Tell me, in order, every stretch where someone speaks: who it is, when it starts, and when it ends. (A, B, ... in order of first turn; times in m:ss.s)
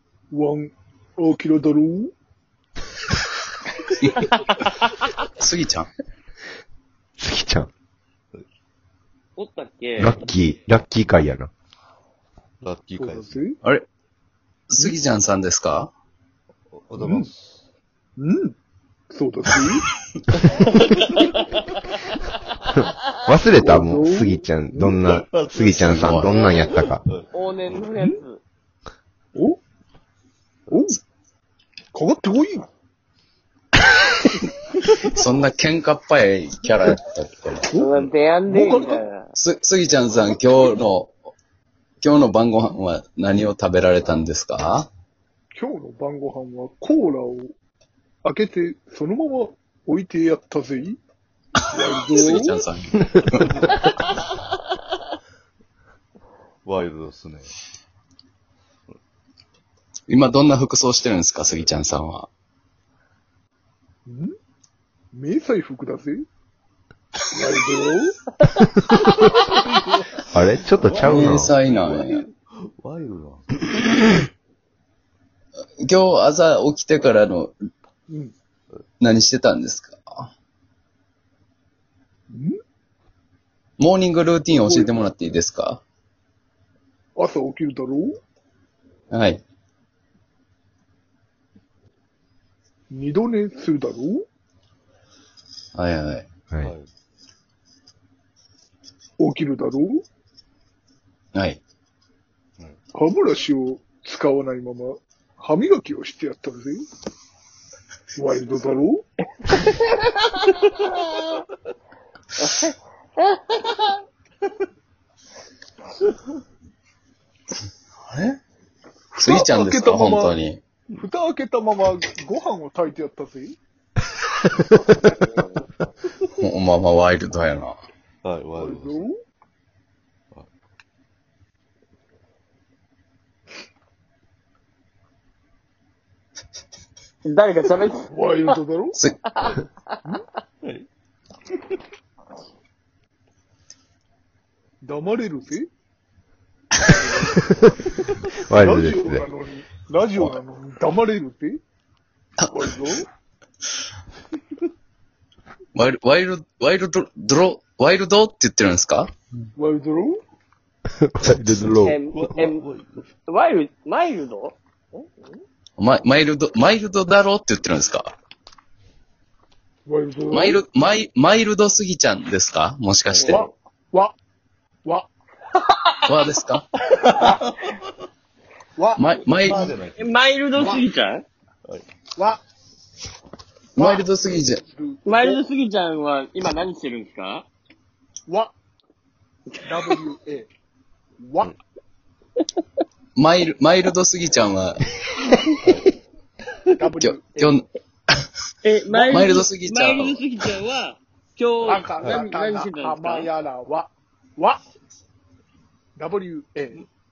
0:00.3-0:02.1 A
0:04.2-0:04.8 B
0:05.4-0:05.9 C
0:07.2-0:07.7 D
0:09.4-0:10.2 B
0:10.0-0:11.5 D
0:12.6-0:13.4 E
0:13.0-0:13.6 A
0:14.7-0:15.9 C
0:16.7-0:17.6 E
0:17.0-0:17.3 A
0:18.2-0:18.6 A
0:19.1-0:19.9 A
0:23.2-0:27.0 D
0:23.6-0:25.2 A
0:25.1-0:27.9 E
0:25.7-0:26.5 C
0:26.3-0:26.7 B
0:27.3-0:28.4 B
0:29.3-0:29.6 A
0:30.7-0:31.0 A
0:31.9-0:32.7 A
0:35.0-0:38.1 C
0:37.8-0:39.3 B
0:38.5-0:39.0 A
0:39.4-0:41.1 C
0:42.0-0:44.9 C
0:45.5-0:47.5 A
0:48.2-0:51.0 A
0:51.6-0:52.6 A
0:52.1-0:53.6 C
0:56.6-0:57.5 E
1:00.1-1:02.3 C
1:04.1-1:04.3 A
1:05.1-1:06.2 A
1:07.3-1:08.2 A
1:09.3-1:12.3 A
1:10.3-1:11.5 D
1:11.0-1:12.2 C
1:12.6-1:14.1 E
1:15.8-1:17.5 C
1:18.1-1:18.3 A
1:19.0-1:20.3 C
1:22.3-1:22.6 A
1:23.8-1:25.8 C
1:24.5-1:25.0 A
1:27.2-1:28.2 A
1:29.1-1:29.4 C
1:32.9-1:34.3 A
1:35.8-1:36.3 C
1:36.6-1:36.9 E
1:39.2-1:40.0 A
1:41.3-1:41.6 C
1:42.9-1:46.8 A
1:48.2-1:49.1 A
1:49.7-1:51.3 B
1:52.4-1:53.9 B
1:58.1-1:58.4 C
1:59.2-2:00.6 C
1:59.2-2:00.4 A
2:00.9-2:03.6 A
2:04.6-2:04.9 D
2:06.4-2:07.8 C
2:08.2-2:09.0 E
2:08.6-2:09.2 A
2:17.2-2:18.6 B
2:18.1-2:19.0 A
2:19.4-2:19.7 B
2:24.8-2:25.7 A
2:27.3-2:27.7 D
2:28.4-2:29.2 D
2:28.6-2:31.6 A
2:32.4-2:32.7 C
2:32.5-2:33.1 A
2:35.7-2:39.1 C
2:39.6-2:40.2 A
2:41.0-2:42.0 D
2:41.8-2:42.6 B
2:42.1-2:43.0 E
2:43.2-2:44.6 B
2:44.9-2:45.4 A
2:45.8-2:48.1 C
2:49.9-2:50.6 A
2:50.3-2:53.5 C
2:53.2-2:53.5 B
2:53.3-2:54.2 A
2:54.8-2:55.1 A
2:55.6-2:56.2 B
2:56.1-2:56.7 C
2:56.9-2:57.2 B
2:57.0-2:57.8 E
2:58.8-2:59.1 A
2:59.0-2:59.7 C
2:59.3-3:00.1 E
3:00.0-3:01.2 B
3:00.6-3:00.8 A
3:02.2-3:02.4 A
3:03.8-3:04.6 C
3:03.8-3:05.4 A
3:05.1-3:07.5 B
3:08.3-3:08.5 A
3:09.5-3:10.0 B
3:09.6-3:10.5 A
3:11.2-3:11.6 A
3:13.2-3:14.9 C
3:15.2-3:15.6 B
3:16.8-3:17.6 A
3:17.0-3:18.2 C
3:18.6-3:23.3 B
3:18.9-3:20.2 C
3:21.6-3:24.6 A
3:22.0-3:22.3 E
3:26.0-3:26.9 A